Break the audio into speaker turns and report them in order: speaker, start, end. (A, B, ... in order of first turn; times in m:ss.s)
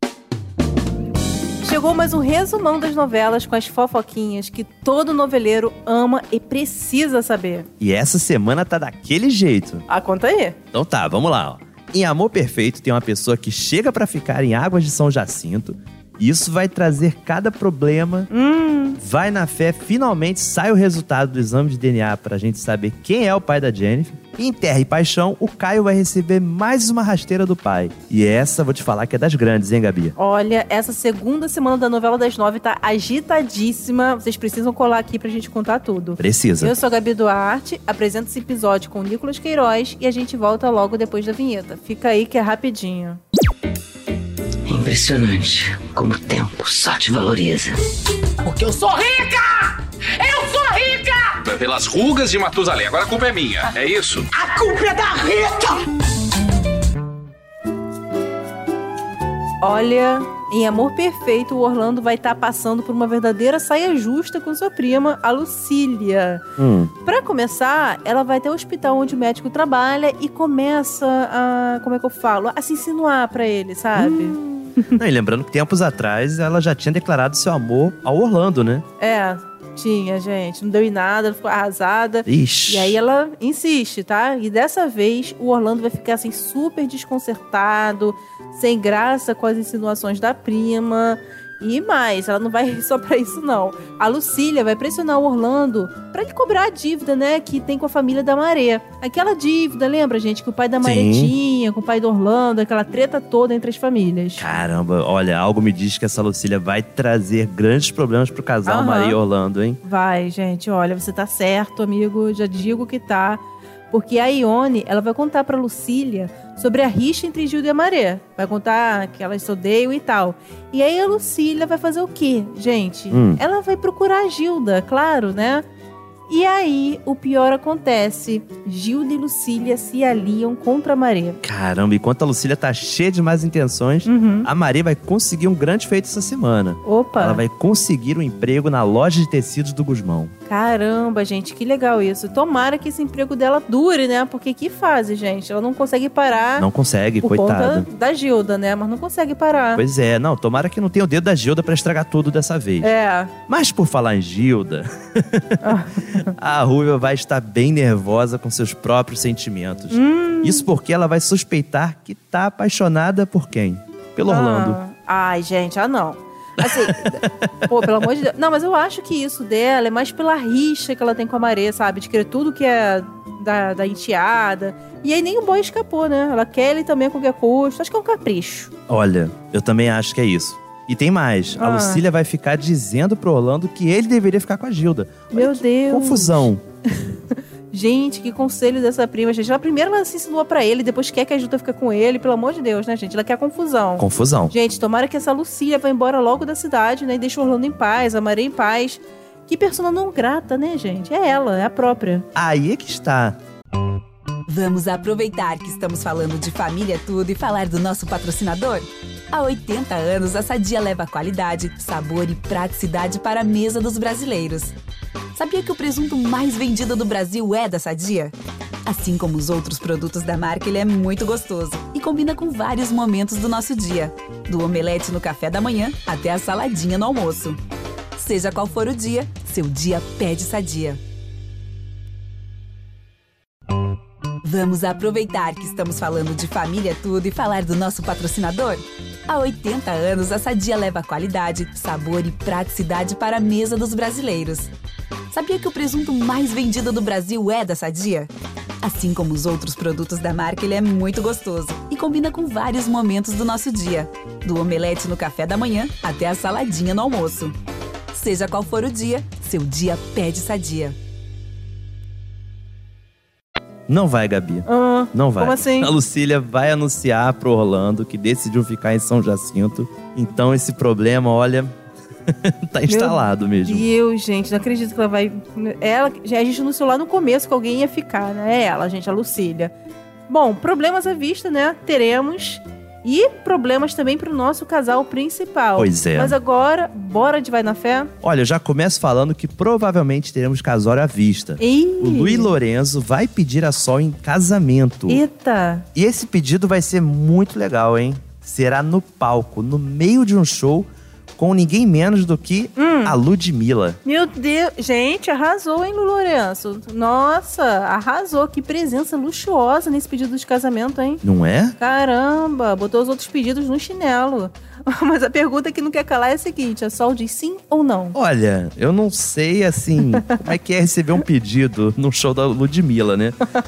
0:01.6-0:07.7 A
0:07.8-0:09.8 B
0:09.9-0:10.6 A
0:10.7-0:18.3 B
0:18.3-0:19.0 A
0:19.0-0:30.2 B
0:30.2-0:43.2 A
0:36.2-0:36.8 B
0:44.7-0:47.8 C
0:48.4-0:49.3 C
0:48.4-0:51.4 D
0:51.4-0:54.3 E
0:54.4-0:55.5 C
0:54.4-0:55.8 D
0:59.6-1:06.4 A
1:06.6-1:06.9 B
1:07.0-1:15.0 A
1:14.0-1:18.8 B
1:19.0-1:44.5 A
1:22.2-1:23.0 B
1:40.8-1:41.3 B
1:44.4-1:49.8 B
1:48.6-1:49.2 A
1:49.8-2:05.7 A
2:03.1-2:03.4 B
2:06.3-2:11.4 A
2:11.4-2:20.3 B
2:14.0-2:14.5 A
2:16.8-2:17.4 A
2:20.5-2:26.7 A
2:26.6-2:27.9 B
2:27.2-2:29.8 A
2:29.8-2:32.9 B
2:32.8-2:33.3 A
2:33.5-2:35.8 B
2:35.6-2:36.3 A
2:36.4-2:44.8 B
2:39.9-2:40.7 A
2:44.3-2:58.7 A
2:46.6-2:47.8 B
2:58.9-3:06.6 B
3:01.6-3:02.0 A
3:05.3-3:07.1 A
3:07.7-3:22.3 A
3:14.0-3:14.5 B
3:22.3-3:23.4 B
3:24.5-3:34.8 F
3:35.3-3:38.3 F
3:38.8-3:47.6 F
3:48.1-3:51.0 F
3:54.4-4:04.7 F
4:05.3-4:08.3 F
4:08.8-4:17.6 F
4:18.1-4:21.0 F
4:23.9-4:31.7 B
4:24.7-4:26.0 A
4:32.3-4:33.9 B
4:32.9-4:39.7 A
4:40.3-4:48.1 A
4:45.8-4:46.4 B
4:48.2-4:55.2 B
4:51.6-4:52.6 A
4:55.1-4:55.9 A
4:55.9-5:04.0 B
5:02.8-5:03.2 A
5:04.0-5:11.2 A
5:11.2-5:11.8 B
5:11.8-5:18.2 A
5:18.1-5:23.4 B